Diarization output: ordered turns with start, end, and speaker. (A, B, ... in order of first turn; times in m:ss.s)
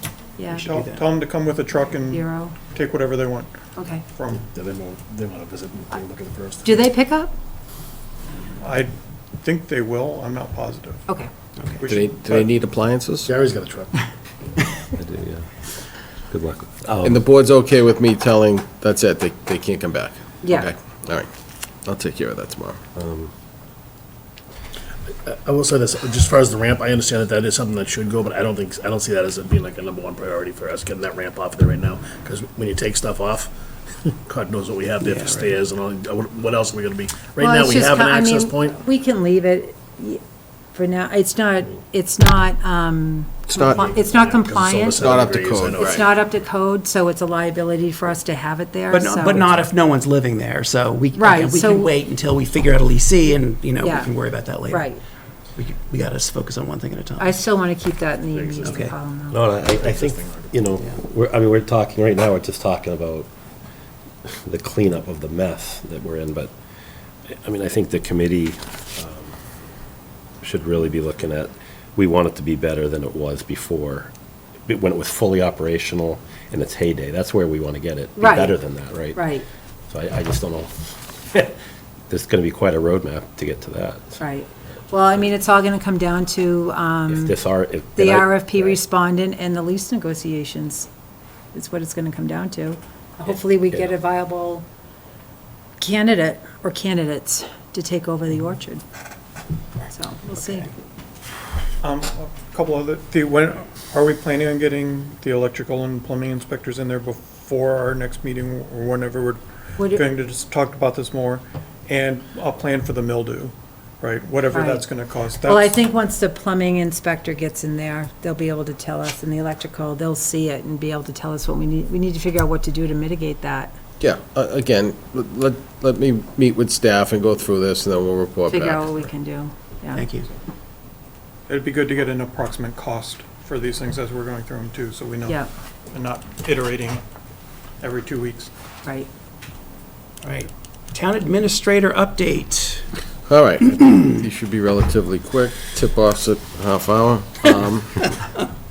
0:00.4-0:00.6 A
0:00.5-0:01.1 B
0:00.5-0:04.4 C
0:02.1-0:02.6 A
0:03.8-0:04.0 A
0:04.4-0:06.9 D
0:06.6-0:07.3 A
0:08.6-0:08.9 C
0:09.4-0:11.1 C
0:11.8-0:12.5 C
0:11.8-0:13.3 E
0:13.2-0:14.0 D
0:14.9-0:15.5 F
0:16.3-0:17.2 F
0:17.0-0:21.3 E
0:20.4-0:20.7 A
0:21.8-0:22.8 E
0:23.0-0:23.3 F
0:25.1-0:33.5 D
0:34.0-0:38.8 D
0:35.0-0:35.5 B
0:37.4-0:40.2 A
0:40.7-0:45.1 A
0:43.5-0:43.8 E
0:43.5-0:46.1 D
0:44.8-0:46.0 E
0:45.8-0:49.5 A
0:48.9-0:54.9 B
0:51.2-0:51.9 A
0:53.8-0:54.1 A
0:54.7-0:55.0 A
0:55.6-0:57.3 B
0:57.2-0:59.4 A
0:58.3-0:58.9 D
0:58.6-0:58.9 B
0:59.3-1:03.3 F
0:59.5-1:00.6 D
1:04.3-1:06.5 F
1:07.4-1:09.3 F
1:10.4-1:14.1 F
1:14.7-1:19.2 F
1:18.2-1:18.6 A
1:19.1-1:19.4 A
1:19.9-1:20.7 F
1:22.1-1:24.2 F
1:24.2-1:27.3 A
1:27.1-1:28.8 F
1:27.9-1:30.9 A
1:31.5-1:34.6 A
1:35.8-1:38.8 A
1:39.9-1:40.7 A
1:41.8-1:55.8 C
1:49.8-1:50.0 A
1:54.5-1:54.8 A
1:55.4-2:03.7 A
2:04.0-2:09.1 E
2:08.5-2:10.0 A
2:09.9-2:10.3 B
2:11.5-2:17.0 C
2:17.8-2:18.5 C
2:20.2-2:22.9 B
2:23.3-2:28.1 E